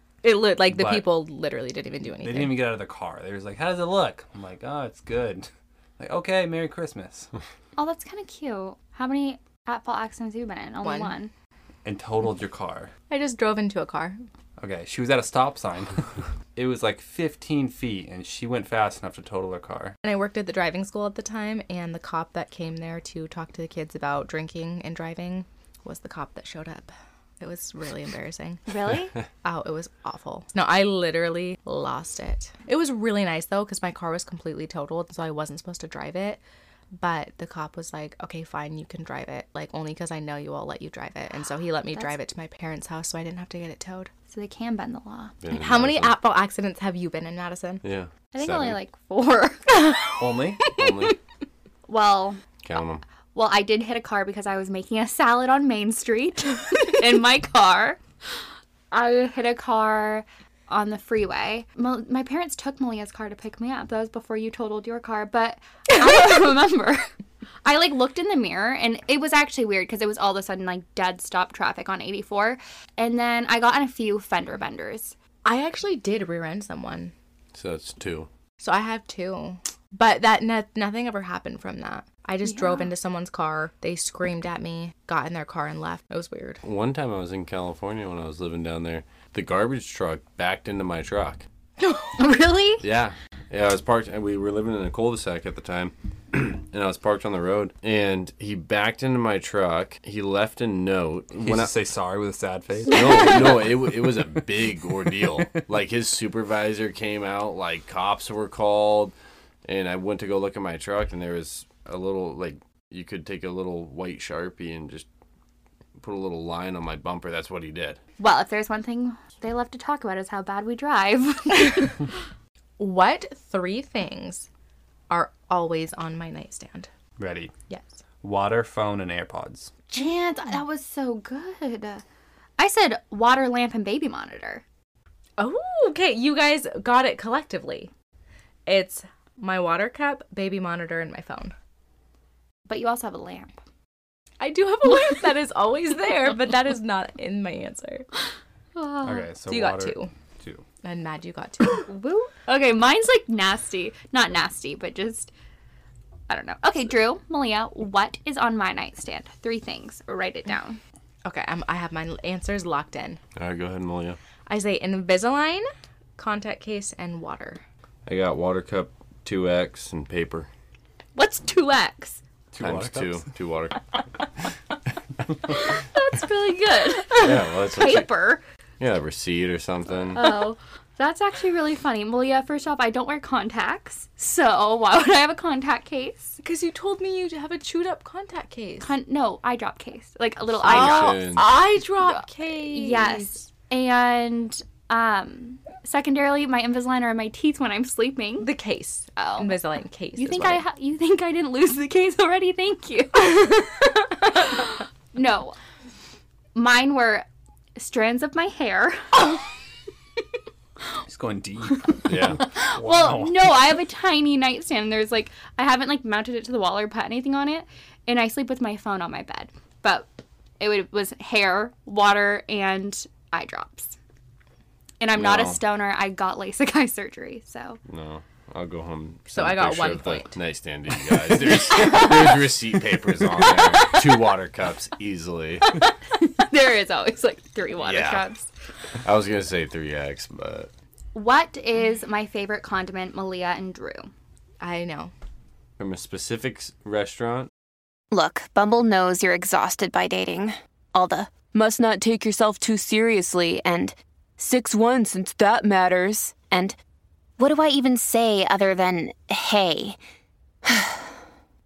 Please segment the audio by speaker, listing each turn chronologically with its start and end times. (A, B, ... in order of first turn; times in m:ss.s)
0:00.2-0:02.7 A
0:00.7-0:01.1 B
0:02.2-0:07.3 B
0:07.8-0:11.3 C
0:10.8-0:11.1 A
0:11.8-0:12.9 B
0:13.1-0:14.2 A
0:14.6-0:20.0 B
0:20.0-0:28.7 A
0:28.7-0:29.2 C
0:29.4-0:36.4 A
0:36.9-0:44.1 A
0:44.3-0:45.4 C
0:45.4-0:46.2 D
0:45.5-0:47.8 A
0:47.8-0:48.8 D
0:48.3-0:49.9 C
0:49.7-0:51.1 A
0:50.2-0:50.6 B
0:50.8-0:51.2 D
0:51.9-0:52.4 C
0:52.6-0:53.0 D
0:53.3-0:58.0 C
0:58.9-1:07.0 C
1:07.6-1:15.2 C
1:15.4-1:17.1 A
1:17.5-1:18.3 D
1:18.6-1:26.6 A
1:22.5-1:22.9 C
1:26.6-1:31.4 D
1:31.8-1:32.2 A
1:32.2-1:32.8 C
1:32.8-1:41.7 D
1:41.4-1:43.6 B
1:42.9-1:55.1 D
1:56.0-1:58.0 D
1:58.2-2:02.0 C
2:02.8-2:04.5 A
2:05.1-2:06.9 A
2:07.2-2:07.5 B
2:07.7-2:08.0 A
2:08.2-2:09.7 B
2:09.9-2:12.0 C
2:12.6-2:14.6 C
2:15.4-2:17.9 A
2:18.7-2:21.5 A
2:22.7-2:23.5 C
2:24.4-2:28.1 A
2:28.8-2:29.2 C
2:29.0-2:30.6 B
2:29.5-2:30.1 A
2:30.8-2:31.9 A
2:31.7-2:35.3 C
2:36.3-2:40.8 C
2:41.2-2:43.2 A
2:43.4-2:44.2 D
2:44.5-2:47.6 A
2:48.1-2:50.5 D
2:51.2-2:52.2 C
2:52.5-2:53.2 B
2:52.6-2:53.9 D
2:55.7-2:58.4 C
2:57.0-2:57.3 A
2:57.2-2:58.1 D
2:58.8-3:00.4 D
3:00.1-3:06.4 C
3:06.4-3:08.9 A
3:08.8-3:11.4 C
3:10.5-3:11.5 D
3:10.6-3:13.4 A
3:12.0-3:18.5 C
3:18.4-3:20.6 A
3:19.2-3:19.6 C
3:20.2-3:23.6 C
3:23.3-3:23.6 A
3:24.3-3:25.6 C
3:26.5-3:29.4 C
3:31.1-3:33.6 B
3:32.1-3:32.4 D
3:32.4-3:40.1 C
3:40.6-3:44.0 C
3:45.0-3:47.8 C
3:45.1-3:45.6 D
3:47.9-3:55.8 D
3:49.3-3:50.4 A
3:51.7-3:52.1 A
3:56.2-3:58.5 C
3:57.8-3:58.2 D
3:59.0-4:00.7 D
4:01.1-4:04.1 C
4:04.6-4:05.1 A
4:05.8-4:07.5 D
4:08.1-4:16.8 E
4:17.4-4:20.0 E
4:20.6-4:21.1 E